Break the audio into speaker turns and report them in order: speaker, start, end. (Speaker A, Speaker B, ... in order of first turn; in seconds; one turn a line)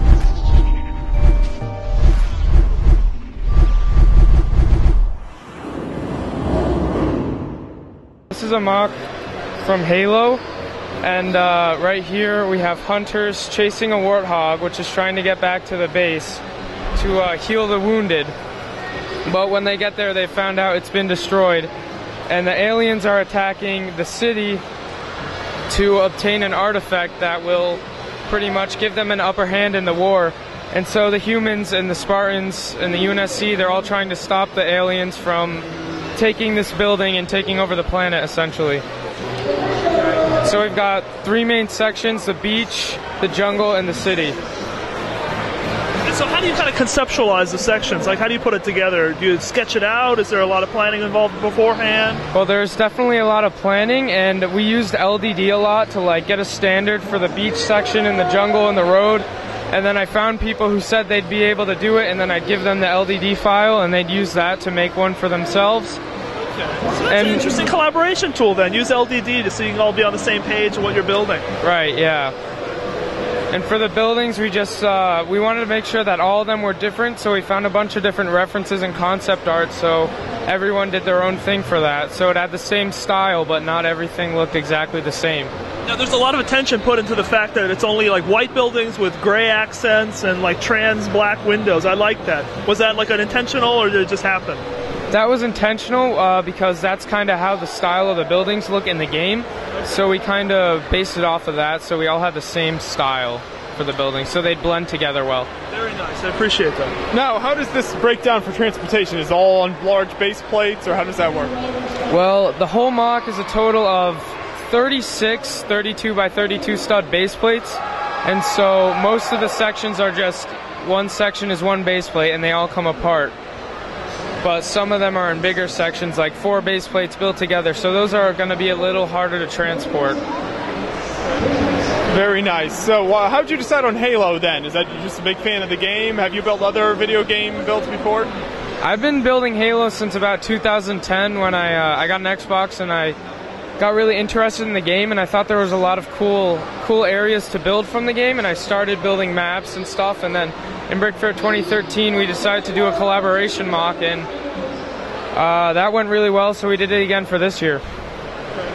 Speaker A: 8.3-9.0
Speaker A: 9.6-10.4
Speaker A: 11.0-16.4
Speaker A: 16.9-18.3
Speaker A: 19.2-21.7
Speaker A: 22.3-24.6
Speaker A: 25.7-38.8
Speaker A: 40.4-44.4
Speaker B: 46.0-52.2
Speaker A: 52.3-66.0
Speaker B: 66.5-71.5
Speaker A: 67.1-67.5
Speaker A: 71.6-72.3
Speaker A: 73.5-85.5
Speaker B: 85.9-94.6
Speaker A: 95.1-105.5
Speaker B: 105.7-107.0
Speaker C: 107.1-111.6
Speaker A: 112.1-123.3
Speaker A: 124.4-130.2
Speaker C: 132.1-138.3
Speaker A: 138.8-143.2
Speaker A: 143.8-154.3
Speaker A: 155.3-157.8